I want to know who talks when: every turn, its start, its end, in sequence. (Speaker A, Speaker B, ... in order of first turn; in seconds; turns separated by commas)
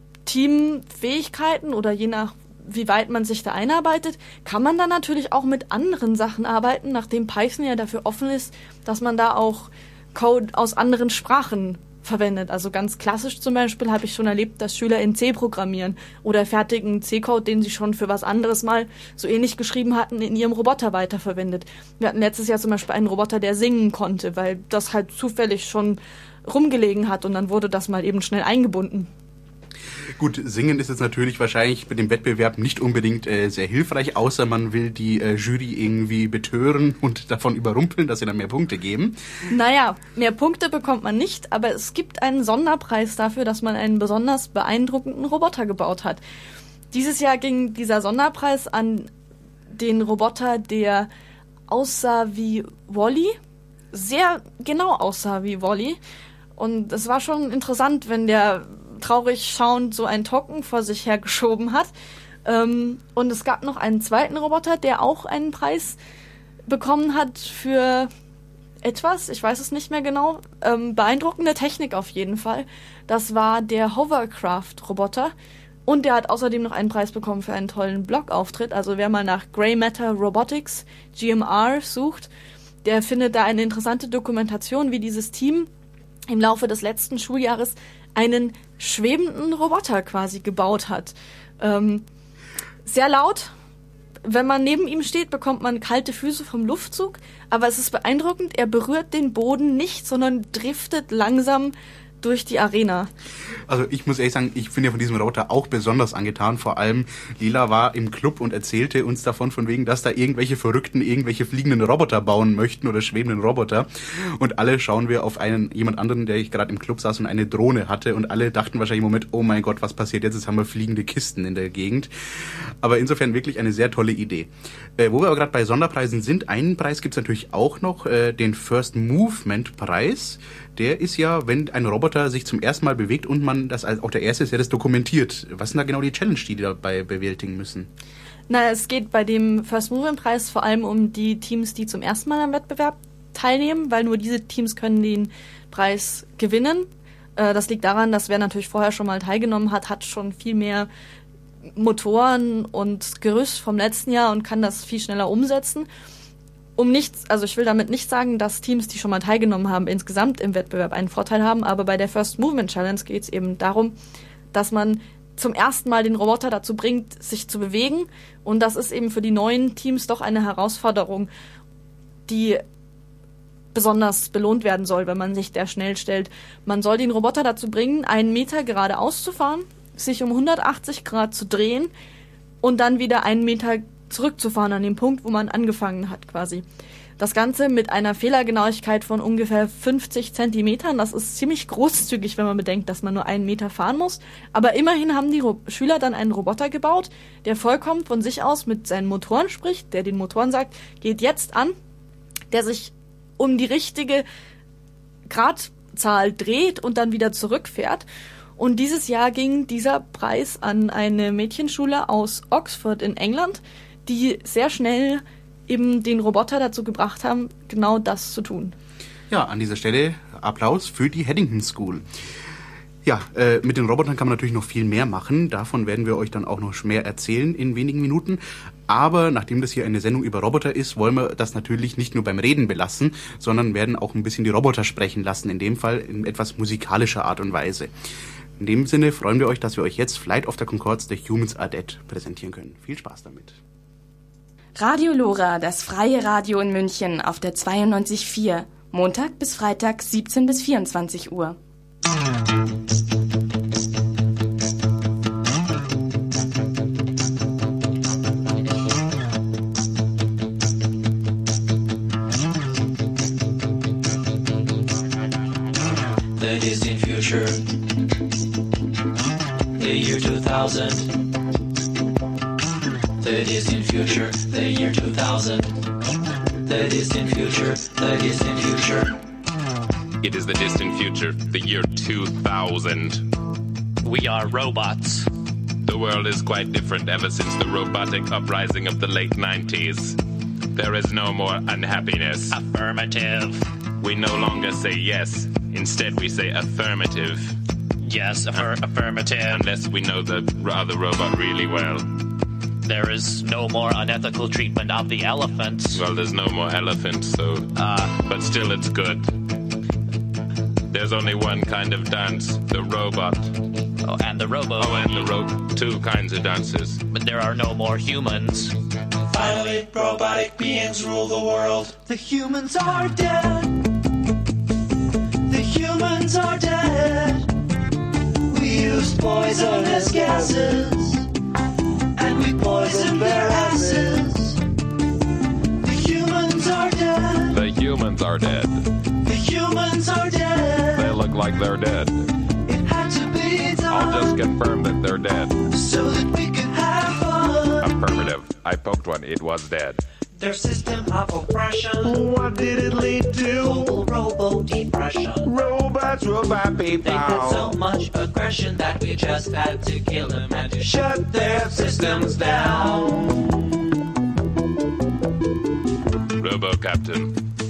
Speaker A: 0.3-29.1, Speaker B: 30.2-39.2, Speaker A: 39.5-46.2, Speaker A: 46.9-49.1, Speaker A: 49.7-51.1, Speaker A: 51.7-53.4, Speaker A: 53.9-56.0, Speaker A: 56.6-61.9, Speaker A: 62.5-66.0, Speaker A: 66.7-68.1, Speaker A: 68.8-75.3, Speaker A: 75.9-82.3, Speaker A: 82.8-85.7, Speaker A: 86.3-92.0, Speaker A: 92.8-93.5, Speaker A: 94.3-103.1, Speaker B: 103.7-137.9, Speaker A: 138.5-150.9, Speaker A: 151.8-155.9, Speaker A: 156.8-163.9, Speaker A: 164.5-171.3, Speaker A: 172.3-172.6, Speaker A: 173.7-181.9, Speaker A: 182.6-186.7, Speaker A: 187.2-201.8, Speaker A: 202.5-204.3, Speaker A: 205.3-208.1, Speaker A: 208.6-218.8, Speaker B: 219.3-222.1, Speaker B: 223.0-237.9, Speaker B: 238.6-243.6, Speaker C: 244.8-251.6, Speaker D: 266.4-267.6, Speaker D: 269.8-271.1, Speaker D: 273.2-275.7, Speaker D: 276.6-279.1, Speaker E: 280.2-283.2, Speaker F: 284.0-285.3, Speaker E: 285.8-290.2, Speaker E: 290.8-292.6, Speaker F: 292.5-293.6, Speaker E: 294.0-297.6, Speaker F: 298.0-299.6, Speaker E: 298.5-298.8, Speaker E: 299.4-302.1, Speaker F: 302.9-306.0, Speaker E: 305.9-309.3, Speaker F: 307.8-308.1, Speaker E: 310.9-313.5, Speaker F: 314.1-315.3, Speaker E: 314.7-317.0, Speaker F: 317.1-318.7, Speaker D: 319.3-323.8, Speaker D: 325.5-327.5, Speaker D: 328.5-331.2, Speaker D: 332.2-334.6, Speaker G: 332.7-334.2, Speaker D: 335.8-337.6, Speaker E: 337.5-338.7, Speaker D: 339.2-341.2, Speaker E: 341.0-342.0, Speaker D: 342.7-344.4, Speaker E: 343.9-345.6, Speaker D: 345.7-347.9, Speaker E: 347.8-350.0, Speaker D: 350.4-352.2, Speaker G: 352.0-354.1, Speaker D: 353.5-355.5, Speaker G: 355.4-357.8, Speaker D: 357.1-363.1, Speaker E: 366.4-367.4